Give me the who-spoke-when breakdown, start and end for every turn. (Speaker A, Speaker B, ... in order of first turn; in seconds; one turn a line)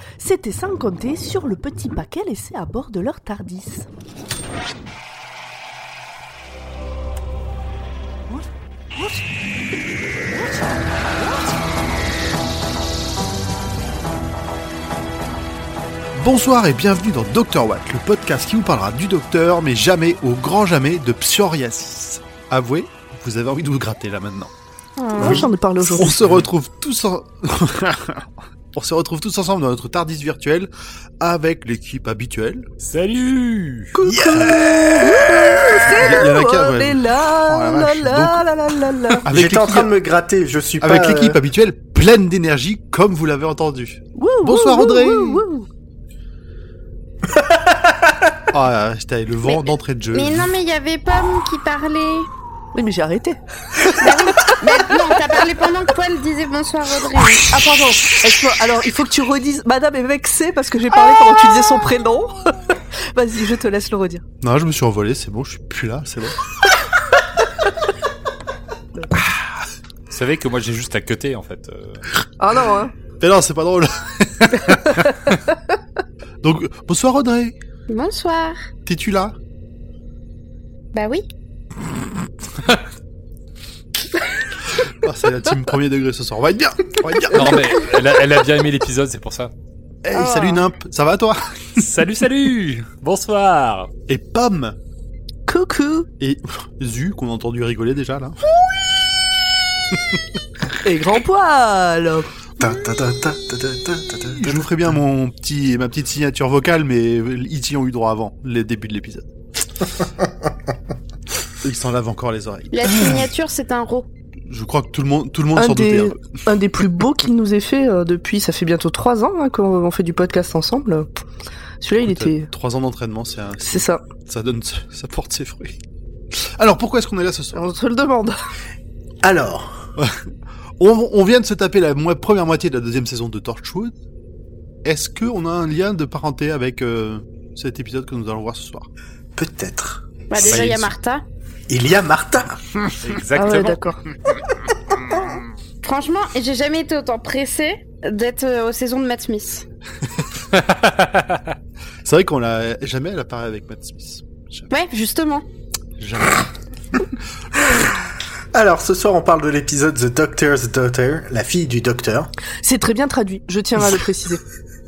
Speaker A: 0.2-3.9
Speaker B: 16.1-24.5
Speaker C: 25.0-25.5
Speaker A: 25.1-26.3
Speaker D: 25.2-25.5
Speaker B: 25.9-30.7
Speaker B: 31.2-32.7
Speaker E: 32.8-33.9
Speaker A: 34.0-39.2
Speaker D: 34.0-35.8
Speaker B: 35.9-38.5
Speaker B: 39.2-39.9
Speaker D: 39.3-41.4
Speaker B: 40.8-45.4
Speaker A: 44.2-45.7
Speaker B: 48.5-50.5
Speaker C: 49.4-52.3
Speaker A: 52.7-53.4
Speaker C: 53.9-57.5
Speaker A: 53.9-54.5
Speaker A: 57.5-64.2
Speaker B: 64.4-66.4
Speaker E: 70.1-72.0
Speaker A: 72.4-72.9
Speaker B: 73.2-75.1
Speaker B: 76.4-77.5
Speaker C: 77.9-78.6
Speaker B: 78.8-79.3
Speaker C: 80.9-81.2
Speaker B: 84.7-87.7
Speaker E: 87.3-89.5
Speaker B: 90.0-91.8
Speaker C: 90.1-90.6
Speaker E: 91.8-93.9
Speaker B: 94.1-94.8
Speaker A: 95.5-96.1
Speaker B: 96.2-98.5
Speaker B: 99.9-100.2
Speaker A: 100.8-102.3
Speaker D: 102.6-104.9
Speaker B: 104.4-109.3
Speaker B: 111.6-113.2
Speaker C: 112.7-114.1
Speaker B: 114.5-116.2
Speaker A: 115.5-121.1
Speaker A: 121.8-122.5
Speaker B: 122.0-125.8
Speaker A: 123.6-124.0
Speaker B: 126.3-127.6
Speaker A: 127.5-128.4
Speaker D: 129.2-129.9
Speaker B: 130.8-133.9
Speaker B: 134.8-138.9
Speaker D: 139.3-140.8
Speaker C: 140.3-141.2
Speaker E: 140.4-140.9
Speaker D: 141.7-142.6
Speaker E: 143.0-143.8
Speaker A: 143.3-144.0
Speaker C: 145.8-149.6
Speaker E: 150.5-151.5
Speaker B: 152.0-154.7
Speaker C: 154.7-155.4
Speaker B: 156.0-156.5
Speaker D: 158.5-162.3
Speaker A: 162.6-164.4